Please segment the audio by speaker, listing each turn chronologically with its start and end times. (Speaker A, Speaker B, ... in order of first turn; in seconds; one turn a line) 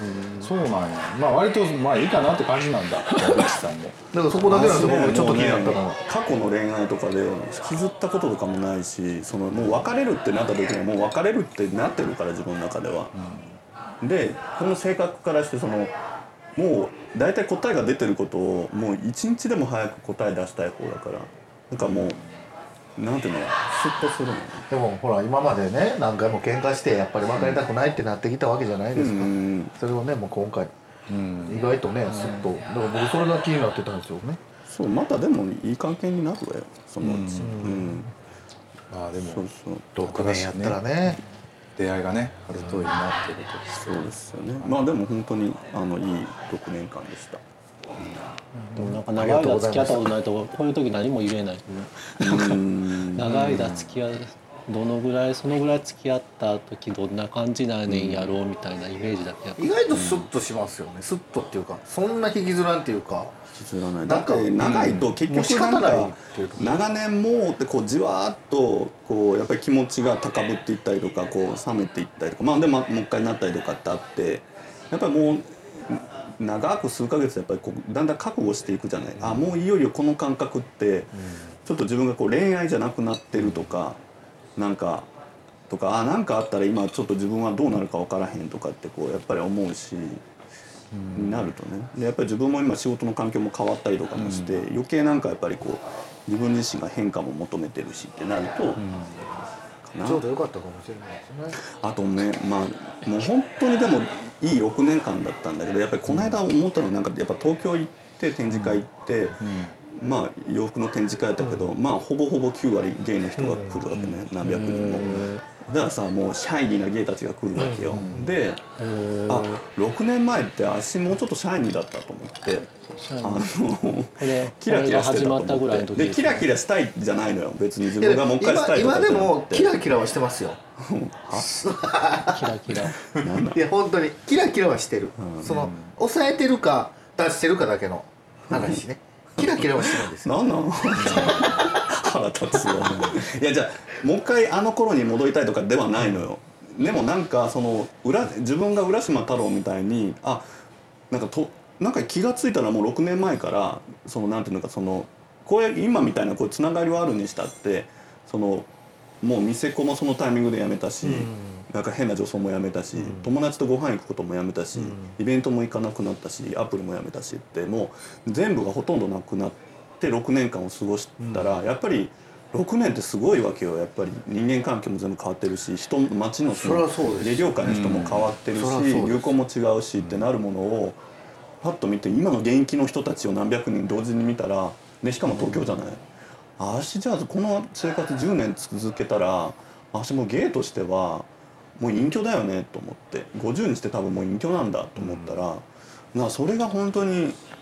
Speaker A: 0.4-5.8
Speaker B: 4.1-6.0
Speaker C: 4.5-13.2
Speaker A: 9.6-9.9
Speaker A: 13.1-13.6
Speaker C: 14.0-15.9
Speaker C: 16.6-22.2
Speaker A: 21.8-22.2
Speaker C: 23.0-24.7
Speaker B: 24.7-30.7
Speaker C: 27.4-27.6
Speaker C: 28.9-29.7
Speaker A: 31.1-31.6
Speaker B: 31.5-34.4
Speaker C: 34.7-38.1
Speaker A: 37.0-37.8
Speaker B: 37.4-38.0
Speaker A: 38.9-39.5
Speaker C: 39.3-39.9
Speaker B: 40.0-41.2
Speaker A: 40.0-40.8
Speaker A: 41.8-44.8
Speaker C: 43.8-47.4
Speaker B: 48.6-50.1
Speaker D: 48.8-59.7
Speaker C: 52.2-53.8
Speaker C: 57.9-58.3
Speaker B: 59.6-63.4
Speaker C: 59.9-60.3
Speaker C: 63.5-84.0
Speaker B: 64.1-64.7
Speaker A: 64.6-65.2
Speaker B: 65.3-66.8
Speaker A: 79.2-79.5
Speaker A: 83.4-83.7
Speaker C: 84.6-85.1
Speaker C: 85.7-90.2
Speaker A: 90.9-91.5
Speaker C: 91.1-98.8
Speaker A: 94.2-94.6
Speaker A: 98.8-99.3
Speaker C: 99.8-100.2
Speaker B: 100.0-101.6
Speaker C: 101.6-118.6
Speaker A: 106.1-106.4
Speaker A: 108.5-108.8
Speaker A: 109.4-109.8
Speaker B: 113.4-113.8
Speaker A: 113.9-114.3
Speaker D: 114.4-115.4
Speaker B: 117.6-118.2
Speaker A: 117.9-118.3
Speaker D: 118.8-119.6
Speaker C: 119.3-129.8
Speaker D: 123.0-123.5
Speaker D: 124.2-126.5
Speaker B: 128.0-130.6
Speaker C: 130.8-131.6
Speaker B: 131.4-132.4
Speaker D: 132.3-133.0
Speaker C: 133.1-133.6
Speaker B: 133.5-140.5
Speaker C: 135.2-135.7
Speaker A: 135.5-135.9
Speaker C: 138.5-138.8
Speaker C: 139.4-150.5
Speaker A: 141.0-141.6
Speaker B: 141.0-141.6
Speaker A: 142.8-143.2
Speaker C: 151.1-158.7
Speaker C: 159.2-181.0
Speaker B: 161.0-161.6
Speaker B: 163.0-163.3
Speaker B: 164.8-165.2
Speaker B: 171.2-171.5
Speaker B: 176.6-177.8
Speaker A: 177.6-178.3
Speaker B: 178.5-179.4
Speaker C: 181.6-186.0
Speaker C: 186.6-197.4